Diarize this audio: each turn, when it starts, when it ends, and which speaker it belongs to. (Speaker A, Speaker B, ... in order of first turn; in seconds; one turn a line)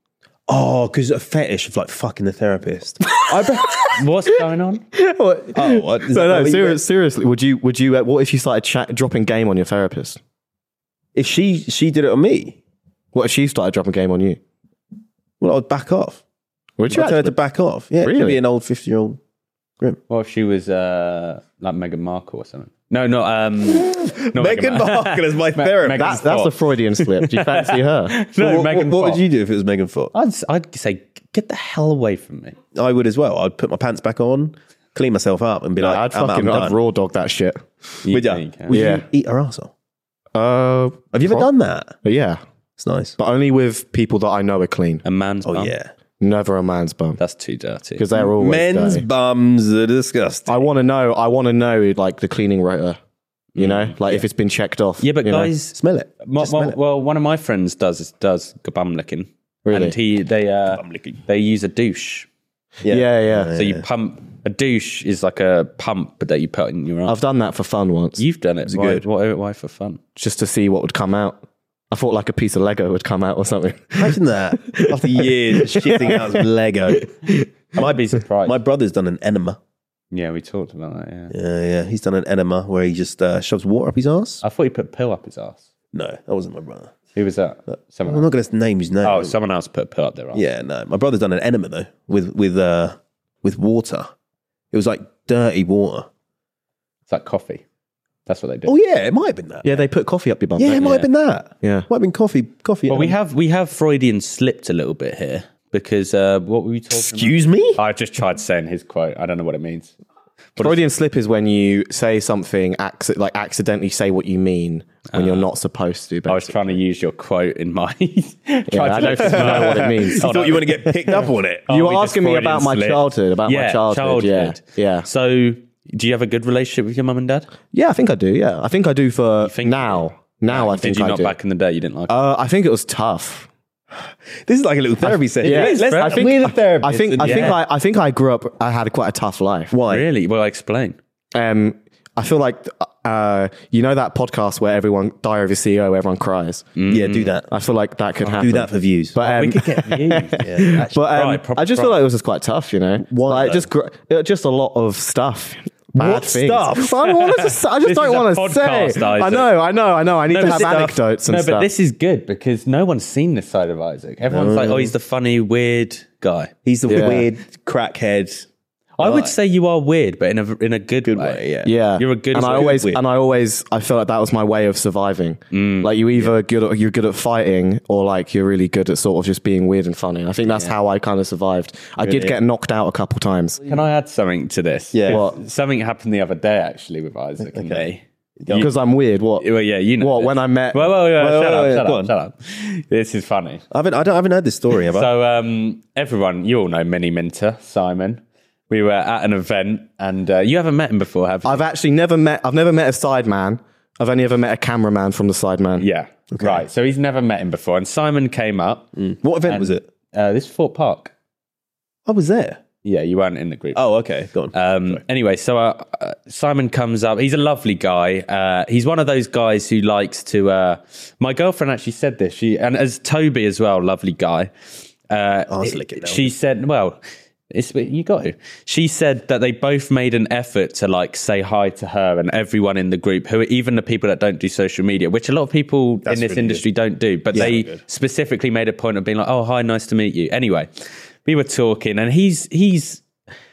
Speaker A: 0.5-3.2
Speaker B: 3.3-4.8
Speaker C: 3.3-4.0
Speaker C: 4.9-10.2
Speaker A: 5.5-6.8
Speaker A: 11.2-12.6
Speaker C: 13.1-14.4
Speaker A: 15.4-16.2
Speaker C: 16.8-17.4
Speaker A: 16.9-19.2
Speaker C: 18.0-18.4
Speaker B: 20.1-29.2
Speaker A: 23.8-26.2
Speaker C: 25.9-28.1
Speaker A: 28.4-30.1
Speaker B: 30.1-32.6
Speaker A: 32.7-36.8
Speaker C: 35.8-37.6
Speaker B: 38.0-38.8
Speaker A: 38.1-39.7
Speaker C: 38.7-39.0
Speaker C: 40.4-41.5
Speaker A: 41.1-42.0
Speaker C: 42.0-42.4
Speaker A: 42.8-43.1
Speaker C: 43.2-45.0
Speaker B: 45.0-45.7
Speaker A: 45.5-45.9
Speaker C: 46.2-47.2
Speaker B: 47.2-48.1
Speaker C: 48.0-49.0
Speaker A: 48.2-50.6
Speaker C: 50.5-53.0
Speaker B: 53.6-54.2
Speaker C: 53.6-55.5
Speaker B: 55.0-62.3
Speaker A: 55.8-56.8
Speaker C: 59.6-60.0
Speaker A: 60.8-61.2
Speaker A: 62.8-63.9
Speaker C: 62.9-63.5
Speaker B: 63.5-67.2
Speaker C: 67.1-68.2
Speaker B: 68.2-70.0
Speaker A: 68.7-69.0
Speaker C: 70.2-74.2
Speaker A: 74.0-77.1
Speaker C: 74.7-76.3
Speaker B: 77.8-78.6
Speaker A: 77.8-79.6
Speaker B: 80.1-81.3
Speaker A: 81.3-84.4
Speaker B: 84.4-85.6
Speaker A: 85.9-86.9
Speaker B: 87.2-88.3
Speaker A: 87.7-89.3
Speaker B: 89.0-90.4
Speaker A: 90.3-94.1
Speaker A: 94.7-96.1
Speaker B: 97.1-97.6
Speaker B: 98.3-98.8
Speaker A: 98.7-99.8
Speaker C: 99.6-101.0
Speaker A: 100.6-103.1
Speaker C: 101.6-101.9
Speaker B: 102.9-109.9
Speaker A: 106.9-107.8
Speaker B: 110.6-110.8
Speaker C: 110.6-116.6
Speaker B: 115.1-115.5
Speaker B: 116.3-120.9
Speaker C: 118.7-121.2
Speaker A: 119.0-121.7
Speaker C: 121.7-125.1
Speaker B: 121.7-127.5
Speaker C: 127.7-131.4
Speaker B: 129.4-132.2
Speaker C: 132.1-133.5
Speaker A: 133.9-137.6
Speaker C: 135.0-139.7
Speaker B: 135.4-136.4
Speaker B: 137.2-137.6
Speaker A: 139.7-140.1
Speaker B: 139.9-141.0
Speaker C: 141.3-146.7
Speaker B: 146.8-147.3
Speaker A: 146.9-147.5
Speaker C: 147.5-161.7
Speaker A: 148.3-150.9
Speaker B: 149.3-152.0
Speaker A: 153.1-153.7
Speaker A: 156.0-157.1
Speaker B: 157.3-159.5
Speaker B: 160.3-166.5
Speaker A: 160.4-161.0
Speaker A: 164.3-164.9
Speaker A: 166.7-168.5
Speaker C: 166.9-167.3
Speaker B: 169.0-171.4
Speaker A: 169.0-169.3
Speaker A: 171.1-171.8
Speaker C: 171.7-183.6
Speaker B: 172.0-172.8
Speaker A: 172.4-173.0
Speaker B: 175.5-175.9
Speaker A: 182.0-182.3
Speaker B: 183.7-188.7
Speaker A: 184.9-185.2
Speaker C: 185.1-185.4
Speaker A: 187.4-187.8
Speaker A: 188.4-188.7
Speaker C: 188.6-189.5
Speaker B: 189.4-193.6
Speaker C: 190.0-190.9
Speaker A: 191.2-192.1
Speaker A: 193.7-195.1
Speaker B: 194.9-201.6
Speaker C: 201.4-205.9
Speaker B: 205.8-208.9
Speaker A: 206.3-206.7
Speaker A: 209.0-209.8
Speaker B: 209.5-211.1
Speaker A: 212.1-212.6
Speaker B: 212.8-213.8
Speaker A: 213.8-215.0
Speaker B: 214.5-224.5
Speaker B: 225.1-227.0
Speaker A: 225.5-226.3
Speaker B: 227.5-240.7
Speaker A: 236.1-236.6
Speaker A: 237.3-237.8
Speaker B: 241.2-243.0